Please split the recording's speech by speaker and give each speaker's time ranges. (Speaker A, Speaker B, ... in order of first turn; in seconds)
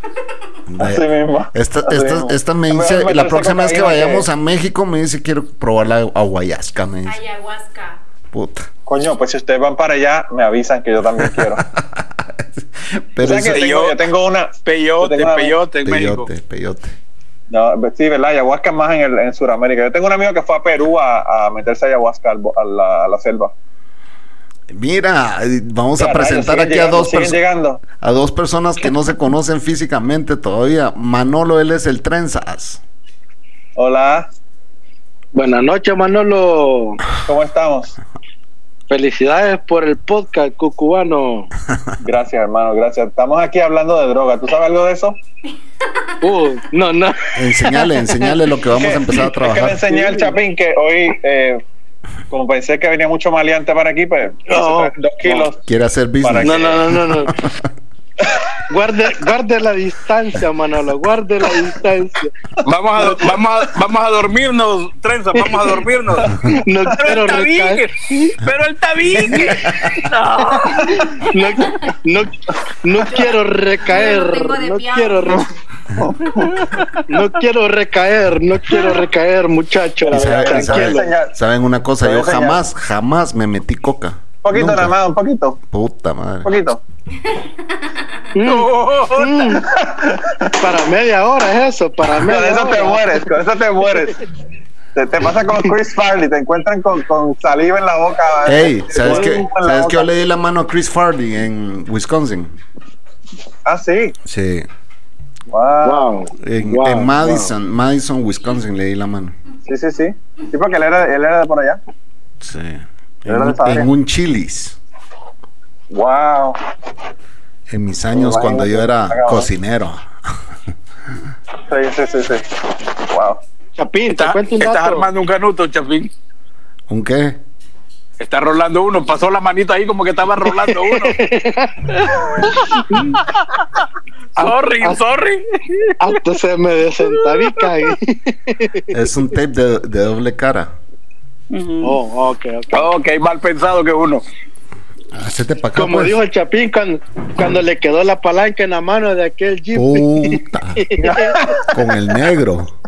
Speaker A: 0.7-7.2, 8.3-8.7, 11.2-13.6, 15.8-16.9, 24.7-27.4, 28.0-32.8, 47.4-49.8, 55.6-57.5, 80.1-85.0, 85.7-86.5, 98.5-102.5, 104.2-104.7, 106.4-109.3, 112.4-114.8, 117.7-120.1, 126.9-127.4, 138.9-140.7, 145.1-146.2, 149.7-150.8, 151.7-152.7
Speaker B: 0.8-4.3, 8.8-11.6, 13.2-15.6, 17.5-23.5, 26.0-27.8, 33.8-34.3, 37.2-38.0, 42.0-45.2, 48.7-51.6, 52.3-55.6, 56.2-56.9, 76.0-76.9, 80.0-81.3, 82.0-82.6, 84.4-85.6, 86.4-86.8, 89.6-90.5, 92.2-94.2, 94.9-100.1, 103.6-104.1, 105.5-106.1, 109.7-111.8, 113.3-113.9, 115.9-116.6, 118.1-119.5, 121.7-123.4, 151.0-151.6
Speaker C: 7.0-8.0, 73.0-75.6
Speaker D: 13.3-14.0, 14.6-16.3, 62.6-66.3, 66.9-71.0, 88.5-89.6, 124.1-126.1, 128.2-131.2, 132.2-132.8, 134.4-135.4, 141.5-142.0, 142.7-144.2
Speaker E: 35.3-37.0, 38.9-41.5, 46.2-48.3, 49.9-50.4, 54.5-55.5, 56.4-57.3, 58.7-62.3, 66.3-68.4, 70.5-75.5, 77.1-81.1, 88.3-89.7, 90.6-93.3, 99.0-99.5, 105.8-107.5, 123.8-125.1, 130.5-133.2, 134.4-135.0, 136.0-139.1, 141.8-142.9, 145.7-151.4